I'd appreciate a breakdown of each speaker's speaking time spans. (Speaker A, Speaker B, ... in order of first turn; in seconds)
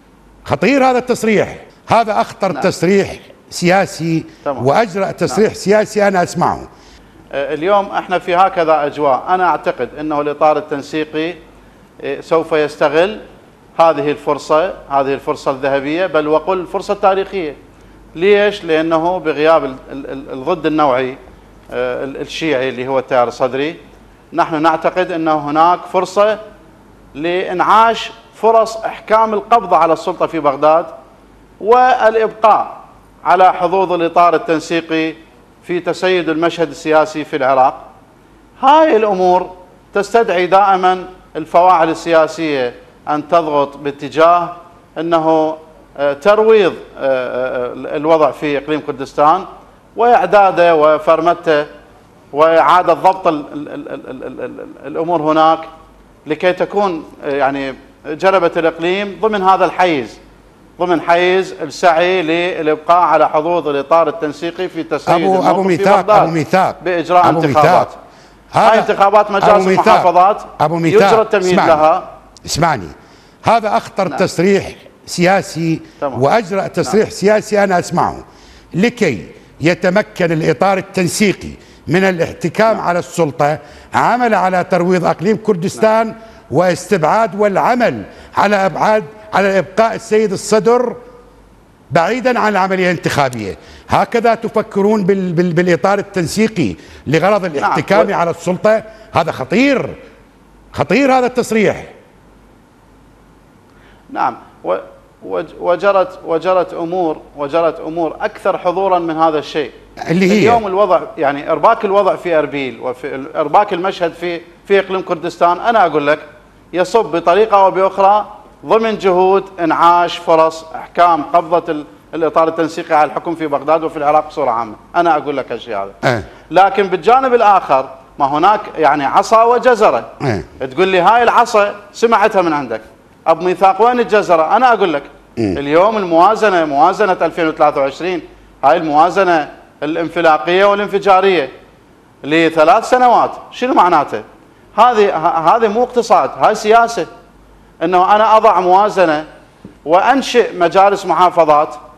Speaker A: 0.5-6.7, 65.1-67.9, 68.5-71.8, 72.5-72.9, 73.4-78.2, 78.8-91.0, 91.9-100.0, 100.7-101.9, 110.1-110.6
Speaker B: 7.3-11.4, 12.0-13.2, 13.8-17.6, 18.1-21.2, 21.7-23.8, 24.3-26.4, 27.1-30.9, 31.6-37.9, 38.6-51.7, 52.3-55.7, 56.3-60.2, 60.8-68.0, 68.6-72.1, 97.6-98.1, 104.1-109.7, 110.3-130.1, 130.6-141.5, 142.2-144.2, 144.8-147.1, 147.8-149.2, 149.8-151.8